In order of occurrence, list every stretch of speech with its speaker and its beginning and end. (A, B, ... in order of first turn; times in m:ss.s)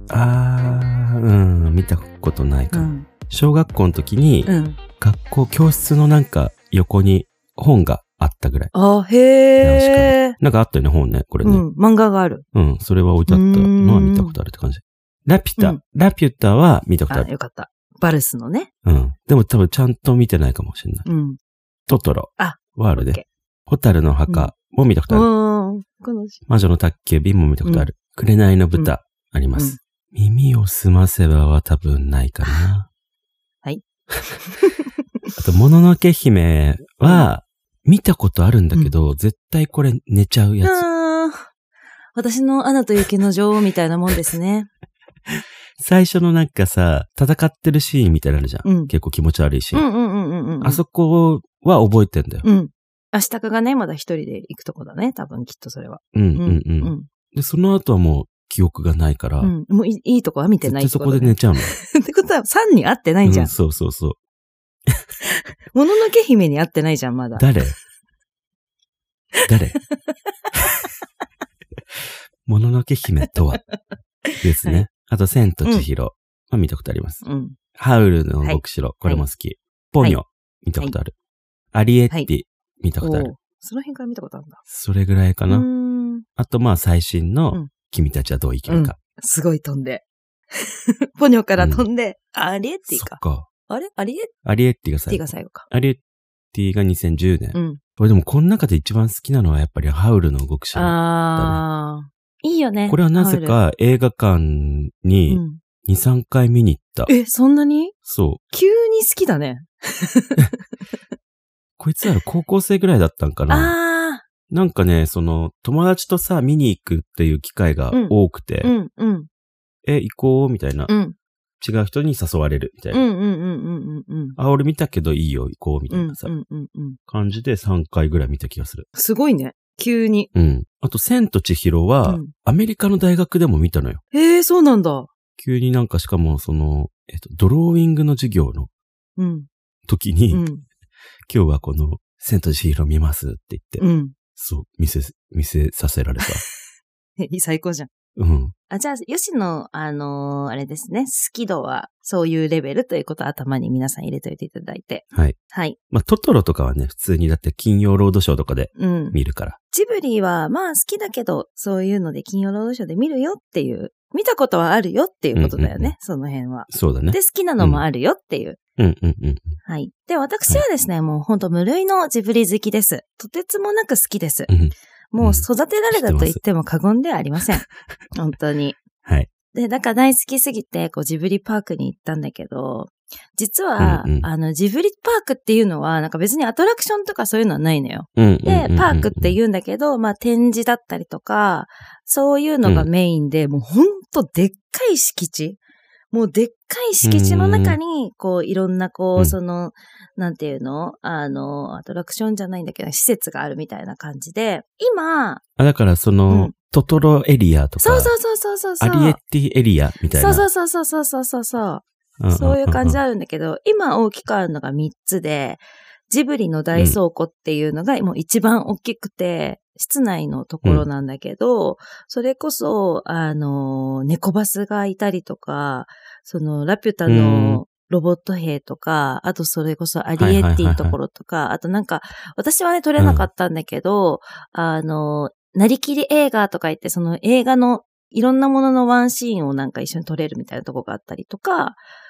0:00.1-0:08.7 A
0:02.7-0:03.1 B
0:04.5-0:04.8 B
0:08.7-0:10.4 B
0:09.6-0:11.6 A
0:11.4-0:12.4 B
0:12.5-0:17.3 A
0:13.3-0:14.4 B
0:17.1-0:18.7 B
0:18.8-0:21.0 A
0:21.0-0:21.4 B
0:21.9-0:25.3 A
0:22.4-0:23.2 B
0:24.3-0:24.5 B
0:25.1-0:26.4 B
0:26.5-0:32.9 A
0:27.6-0:27.9 B
0:34.4-0:34.9 B
0:35.4-0:40.8 A
0:40.6-0:41.5 B
0:42.2-0:44.7 B
0:45.3-0:49.8 A
0:48.6-0:48.9 B
0:49.7-0:50.8 B
0:50.6-0:52.4 A
0:52.4-0:57.1 B
0:56.1-0:59.5 A
0:59.4-1:03.5 B
1:00.6-1:01.7 A
1:03.2-1:04.2 A
1:05.7-1:07.4 B
1:07.4-1:07.8 A
1:09.4-1:09.8 A
1:12.4-1:13.6 A
1:14.3-1:14.8 B
1:14.4-1:17.2 A
1:17.2-1:17.6 B
1:17.8-1:21.1 A
1:18.4-1:19.2 B
1:21.7-1:23.3 A
1:23.0-1:24.6 B
1:24.7-1:25.7 A
1:25.5-1:26.2 B
1:26.4-1:29.0 A
1:28.7-1:30.0 B
1:30.6-1:34.3 B
1:31.6-1:31.8 A
1:32.9-1:33.5 A
1:34.4-1:36.0 A
1:35.1-1:35.7 B
1:36.5-1:41.6 A
1:37.5-1:37.8 B
1:40.7-1:43.6 B
1:42.9-1:47.1 A
1:45.3-1:45.6 B
1:47.1-1:47.9 B
1:48.0-1:48.4 A
1:48.5-1:50.5 B
1:51.8-1:53.7 A
1:53.5-1:54.2 B
1:54.5-1:58.7 A
1:57.9-1:59.3 B
1:59.8-2:00.9 A
2:00.9-2:01.2 B
2:01.6-2:03.0 A
2:02.9-2:04.4 B
2:04.4-2:06.3 A
2:05.9-2:07.0 B
2:07.1-2:08.9 A
2:08.9-2:10.3 B
2:10.3-2:14.0 A
2:12.0-2:12.3 B
2:14.1-2:15.1 B
2:15.4-2:18.7 A
2:19.2-2:19.5 B
2:19.9-2:20.4 A
2:20.3-2:20.6 B
2:21.3-2:23.8 A
2:23.8-2:24.1 B
2:24.4-2:26.4 A
2:27.2-2:27.9 B
2:28.2-2:28.5 A
2:28.7-2:35.8 B
2:35.9-2:39.6 A
2:38.7-2:39.2 B
2:39.7-2:48.6 B
2:45.3-2:45.9 A
2:46.7-2:47.8 A
2:48.8-2:49.5 A
2:49.6-2:54.5 B
2:54.5-2:56.4 A
2:55.1-2:58.8 B
2:59.5-3:15.6 B
3:03.8-3:04.3 A
3:08.2-3:09.4 A
3:16.1-3:25.4 B
3:17.0-3:17.8 A
3:25.6-3:28.1 A
3:26.3-3:26.5 B
3:27.8-3:29.2 B
3:28.8-3:30.4 A
3:30.1-4:01.8 B
3:32.2-3:33.0 A
3:47.0-3:47.6 A
3:50.2-3:51.0 A
3:53.0-3:53.2 A